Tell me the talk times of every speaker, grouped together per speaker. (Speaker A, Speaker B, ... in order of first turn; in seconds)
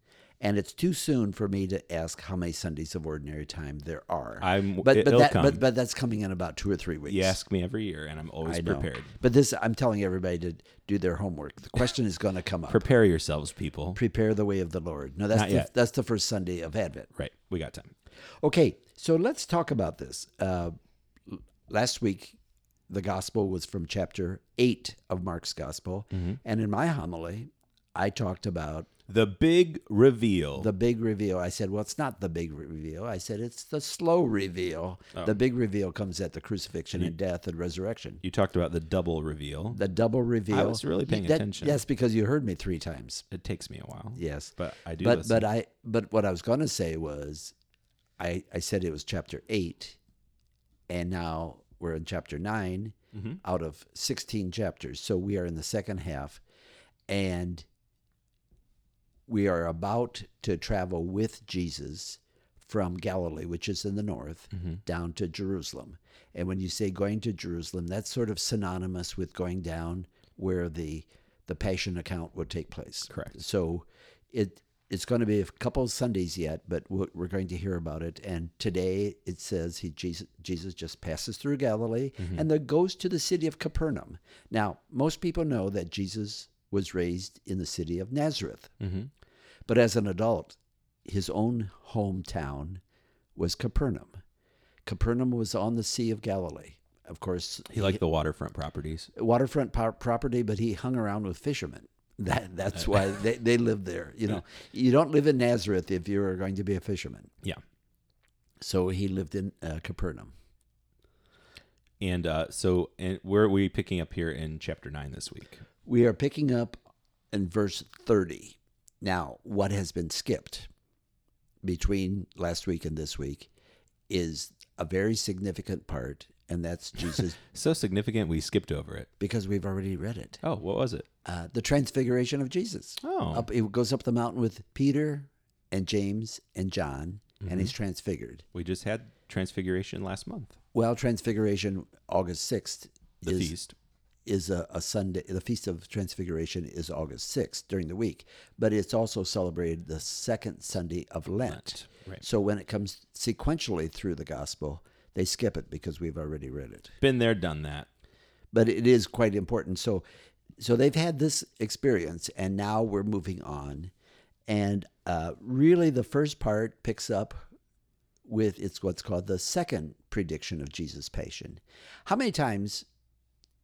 Speaker A: 0.4-7.4, 8.4-12.8, 13.9-17.1, 18.4-20.8, 21.3-22.4, 22.9-28.9, 30.6-38.2, 39.7-43.2, 44.2-47.5, 48.2-50.0, 50.9-56.4, 57.1-57.7, 59.3-88.7, 89.7-92.8, 93.4-94.2, 94.8-98.0, 99.2-107.3, 108.6-110.3, 115.9-116.8, 117.3-120.7, 121.6-123.5, 124.1-127.4, 129.2-130.4, 131.2-138.4, 140.7-143.5, 144.3-156.9, 158.5-160.0, 160.6-163.9, 164.5-167.4, 168.3-172.9
Speaker B: 4.4-5.6, 7.1-9.1, 12.7-14.0, 15.3-15.7, 17.1-17.9, 29.1-30.7, 38.2-39.8, 40.5-41.8, 43.3-45.5, 53.1-53.4, 73.1-73.3, 82.2-82.4, 88.8-89.1, 97.7-99.1, 112.0-115.6, 127.2-129.1, 130.4-131.1, 133.0-133.5, 137.4-137.7, 138.5-140.6, 143.3-143.8, 151.5-152.2, 157.0-157.9